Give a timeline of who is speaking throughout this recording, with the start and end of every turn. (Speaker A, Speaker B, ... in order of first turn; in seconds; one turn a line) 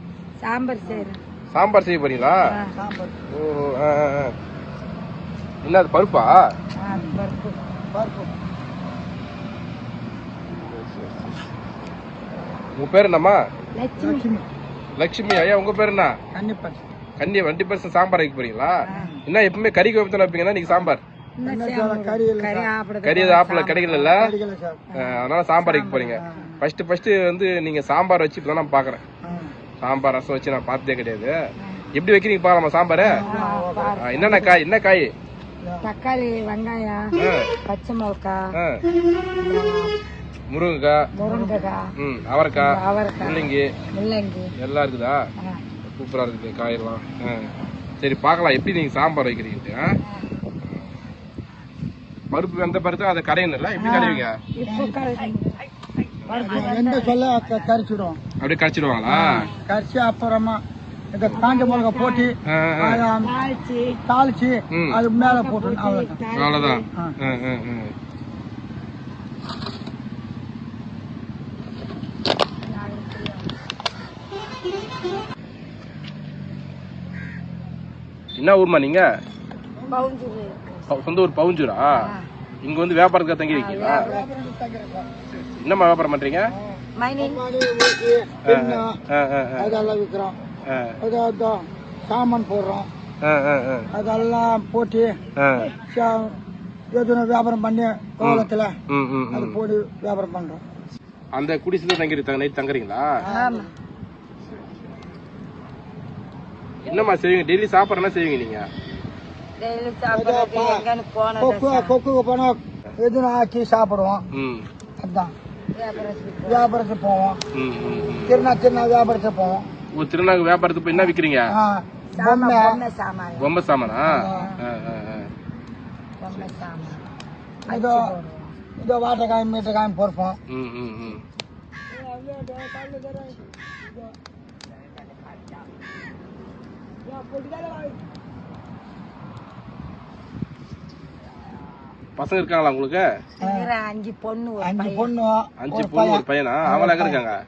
Speaker A: 0.4-1.2
Speaker B: 1.5-2.4
Speaker A: 2.4-2.7
Speaker C: 2.8-3.2
Speaker B: 3.3-4.3
Speaker B: 5.6-6.3
Speaker A: 6.8-7.6
Speaker C: 7.9-8.3
Speaker B: 10.6-11.4
Speaker B: 12.8-13.4
Speaker A: 13.8-14.2
Speaker C: 14.0-14.4
Speaker B: 15.0-16.1
Speaker C: 16.3-16.8
Speaker B: 17.2-18.8
Speaker A: 18.9-19.2
Speaker C: 18.9-19.2
Speaker B: 19.3-21.0
Speaker A: 21.4-24.1
Speaker C: 21.4-22.7
Speaker B: 23.0-24.2
Speaker C: 24.1-24.9
Speaker A: 24.9-26.5
Speaker B: 25.0-29.0
Speaker C: 26.2-26.5
Speaker C: 29.2-29.6
Speaker B: 29.8-31.3
Speaker A: 31.6-31.9
Speaker B: 31.9-33.1
Speaker C: 33.0-34.0
Speaker A: 33.2-34.6
Speaker B: 34.0-35.1
Speaker A: 35.8-37.1
Speaker B: 37.2-37.5
Speaker A: 37.6-38.5
Speaker B: 38.5-38.8
Speaker A: 39.4-39.9
Speaker B: 40.5-41.1
Speaker A: 41.1-41.9
Speaker C: 41.2-41.6
Speaker B: 42.0-42.7
Speaker A: 42.5-44.5
Speaker B: 43.2-43.7
Speaker B: 44.6-45.2
Speaker A: 45.4-45.6
Speaker B: 45.9-47.5
Speaker B: 48.0-49.9
Speaker A: 50.0-50.4
Speaker B: 50.6-50.9
Speaker B: 52.3-54.4
Speaker A: 53.8-55.5
Speaker C: 53.8-55.0
Speaker B: 56.2-56.6
Speaker A: 56.3-57.5
Speaker C: 56.3-58.2
Speaker B: 58.4-59.5
Speaker C: 59.1-60.6
Speaker A: 59.2-59.6
Speaker C: 61.1-63.3
Speaker A: 61.4-62.3
Speaker B: 62.5-63.0
Speaker A: 63.2-64.0
Speaker C: 64.0-66.2
Speaker B: 64.7-65.0
Speaker A: 65.2-66.8
Speaker B: 66.3-67.9
Speaker A: 72.6-73.5
Speaker B: 78.4-79.0
Speaker A: 79.9-80.9
Speaker B: 80.9-81.9
Speaker A: 82.0-82.3
Speaker B: 82.6-84.1
Speaker A: 83.5-84.3
Speaker C: 83.8-85.1
Speaker B: 85.3-86.5
Speaker C: 86.5-89.0
Speaker A: 87.0-87.4
Speaker B: 88.4-89.8
Speaker C: 89.6-90.4
Speaker B: 90.7-91.0
Speaker C: 91.0-92.9
Speaker B: 93.2-93.9
Speaker C: 93.9-95.2
Speaker B: 95.4-95.7
Speaker C: 95.7-96.4
Speaker C: 96.9-98.7
Speaker B: 98.2-99.6
Speaker C: 99.3-100.6
Speaker B: 101.3-103.0
Speaker C: 103.2-103.7
Speaker A: 103.2-103.7
Speaker B: 106.8-108.7
Speaker A: 109.6-111.9
Speaker C: 110.1-110.8
Speaker C: 111.4-114.3
Speaker B: 114.3-114.7
Speaker C: 115.0-115.3
Speaker A: 115.7-116.7
Speaker C: 116.5-117.4
Speaker B: 117.5-118.4
Speaker C: 118.2-119.6
Speaker B: 120.0-121.5
Speaker C: 121.5-122.8
Speaker A: 122.1-123.5
Speaker B: 123.4-125.3
Speaker C: 124.0-124.5
Speaker A: 124.2-124.6
Speaker A: 126.2-127.0
Speaker B: 126.3-126.5
Speaker A: 127.6-128.6
Speaker C: 127.7-128.1
Speaker C: 128.8-130.4
Speaker B: 130.5-131.2
Speaker C: 132.1-133.3
Speaker A: 132.2-132.9
Speaker C: 137.2-137.7
Speaker B: 142.2-143.0
Speaker A: 143.4-145.1
Speaker C: 143.4-143.7
Speaker C: 144.6-147.2
Speaker B: 145.6-147.4